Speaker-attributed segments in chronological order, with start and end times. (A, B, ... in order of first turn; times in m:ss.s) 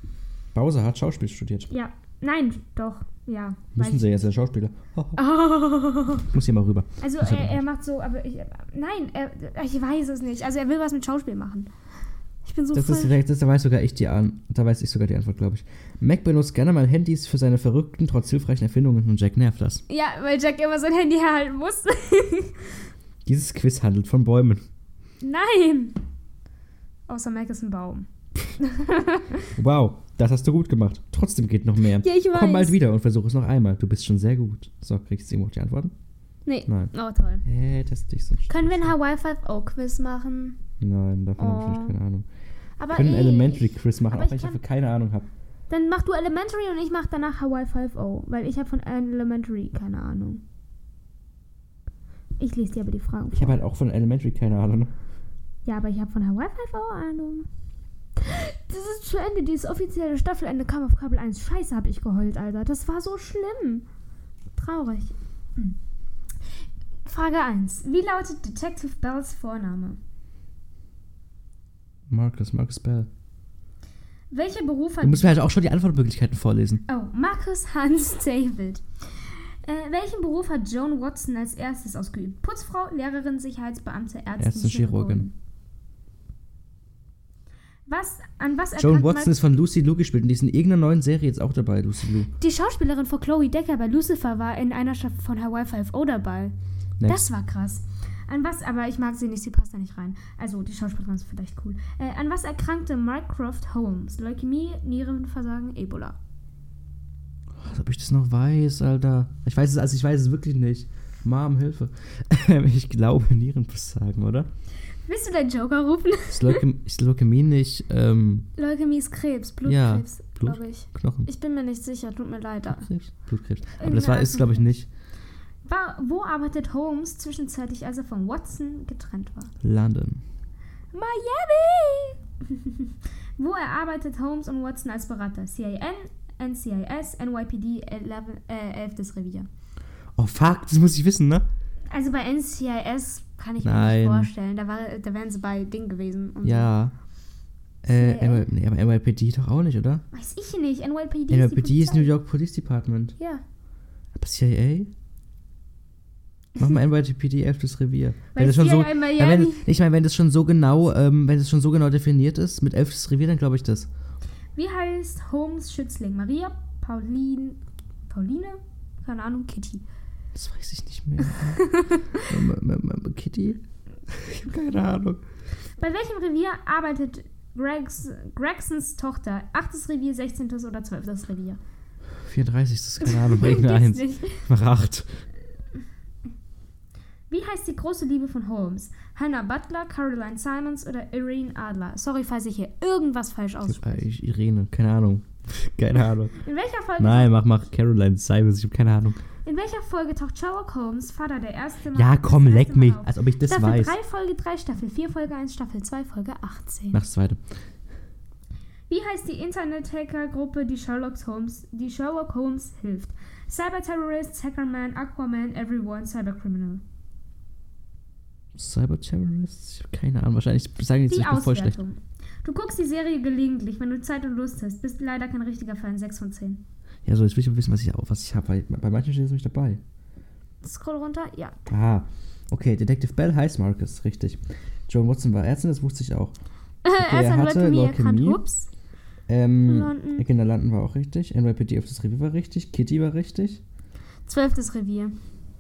0:00.5-0:01.7 A
0:01.7-0:04.1 B
0:03.8-0:05.2 A
0:05.2-0:06.3 B
0:06.3-0:07.6 A
0:07.0-0:11.7 B
0:12.4-0:13.2 B
0:12.7-0:19.8 A
0:19.9-0:22.8 B
0:23.2-0:24.6 A
0:25.2-0:26.0 B
0:27.1-0:28.1 B
0:28.6-0:29.5 B
0:29.6-0:35.9 A
0:32.0-0:32.8 B
0:36.5-0:37.4 B
0:36.7-0:36.9 A
0:37.4-0:39.0 A
0:38.5-0:40.6 B
0:40.8-0:42.3 A
0:41.4-0:41.9 B
0:42.8-0:44.6 B
0:42.9-0:45.3 A
0:45.7-0:50.4 B
0:52.4-0:53.6 B
0:53.3-0:54.9 A
0:55.6-0:57.5 B
0:58.2-1:03.8 B
1:04.6-1:05.8 B
1:07.0-1:10.0 B
1:12.1-1:13.1 A
1:14.3-1:15.3 B
1:15.0-1:16.8 A
1:16.9-1:18.8 B
1:19.6-1:25.3 B
1:24.4-1:25.3 A
1:27.9-1:29.3 B
1:28.8-1:32.3 A
1:32.4-1:46.2 B
1:47.6-1:54.5 A
1:55.0-1:56.6 B
1:56.3-1:58.5 A
1:58.6-2:02.9 B
1:59.6-2:01.3 A
2:02.8-2:04.9 A
2:03.8-2:04.7 B
2:05.6-2:09.5 B
2:09.6-2:10.2 A
2:10.9-2:19.5 B
2:20.2-2:21.5 A
2:21.9-2:26.7 B
2:23.6-2:24.3 A
2:26.4-2:26.9 A
2:27.8-2:30.0 A
2:27.9-2:28.4 B
2:30.1-2:32.1 B
2:31.3-2:33.2 A
2:33.2-2:33.4 B
2:34.1-2:34.9 A
2:36.6-2:43.9 A
2:38.4-2:39.7 B
2:44.6-2:49.8 B
2:50.3-2:55.2 A
2:51.5-2:52.2 B
2:55.8-3:01.6 B
3:02.2-3:05.2 A
3:03.0-3:04.5 B
3:07.3-3:14.0 B
3:13.7-3:16.4 A
3:16.4-3:17.4 B
3:17.0-3:19.2 A
3:19.4-3:27.0 B
3:21.9-3:24.0 A
3:26.9-3:27.4 A
3:28.9-3:36.8 B
3:38.6-3:41.8 A
3:41.1-3:46.6 B
3:47.0-3:49.8 A
3:50.6-3:51.6 B
3:51.7-3:56.4 A
3:56.8-3:58.7 B
3:57.0-3:58.4 A
3:59.3-4:03.6 A
3:59.7-4:00.2 B
4:04.3-4:05.2 B